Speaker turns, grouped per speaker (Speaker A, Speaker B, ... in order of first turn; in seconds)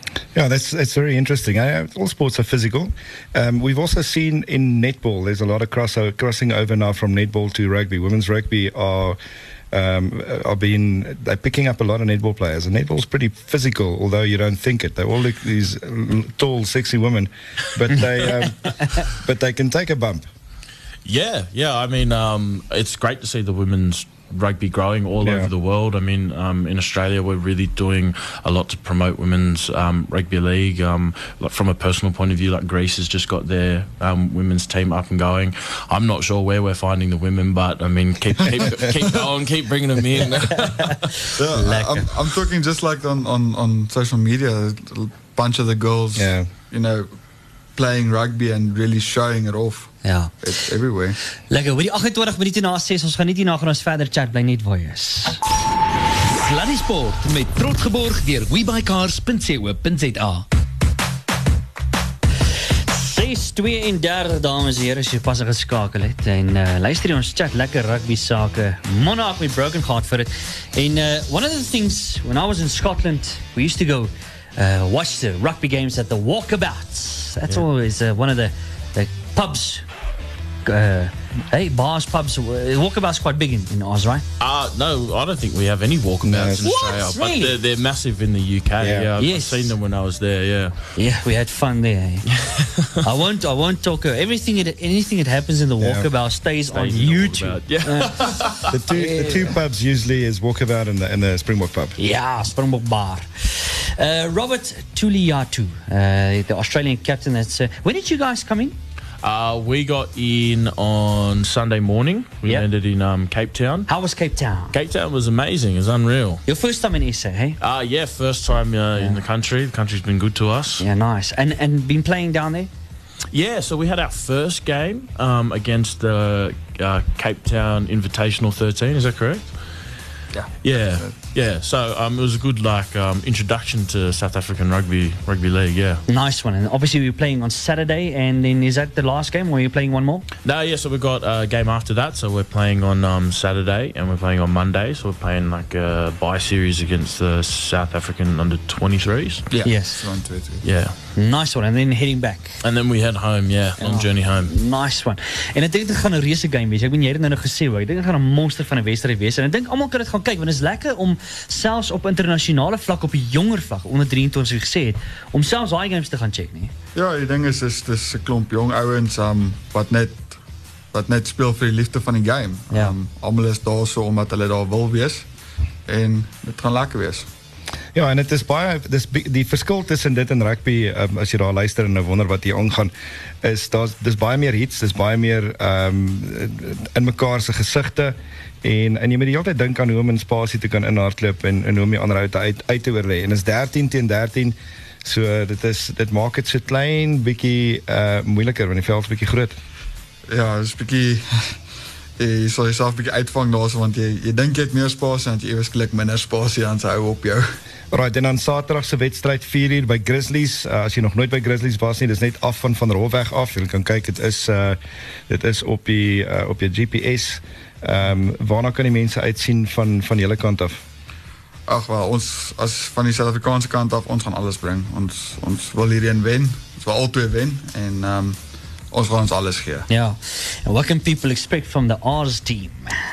Speaker A: 0.3-9.2, 9.7-20.2, 25.2-25.5, 46.1-46.5, 86.2-86.7, 88.8-89.1, 95.8-96.1, 98.7-102.0, 177.9-199.5, 207.9-220.8
Speaker B: 21.0-41.2, 84.4-90.8, 92.5-92.9, 96.7-98.7, 109.2-113.9, 114.7-116.4, 117.6-120.8, 123.3-129.5, 130.6-136.0, 140.4-149.4, 150.6-150.9, 152.6-154.5
Speaker C: 40.5-42.1, 50.0-50.3, 51.5-55.4, 62.9-79.8, 80.6-84.2, 86.6-87.5, 89.2-89.7, 91.0-92.3, 93.0-99.5, 102.0-108.8, 113.9-114.8, 116.5-117.6, 120.8-122.7, 136.1-140.2, 149.6-150.0, 151.2-152.6, 153.8-166.7, 229.9-233.0
Speaker D: 41.4-47.1, 47.8-51.2, 149.5-150.6, 166.9-170.4, 170.9-175.2, 175.9-177.3, 200.3-201.5, 202.2-207.5, 221.7-228.4, 228.9-229.8
Speaker E: 56.4-60.4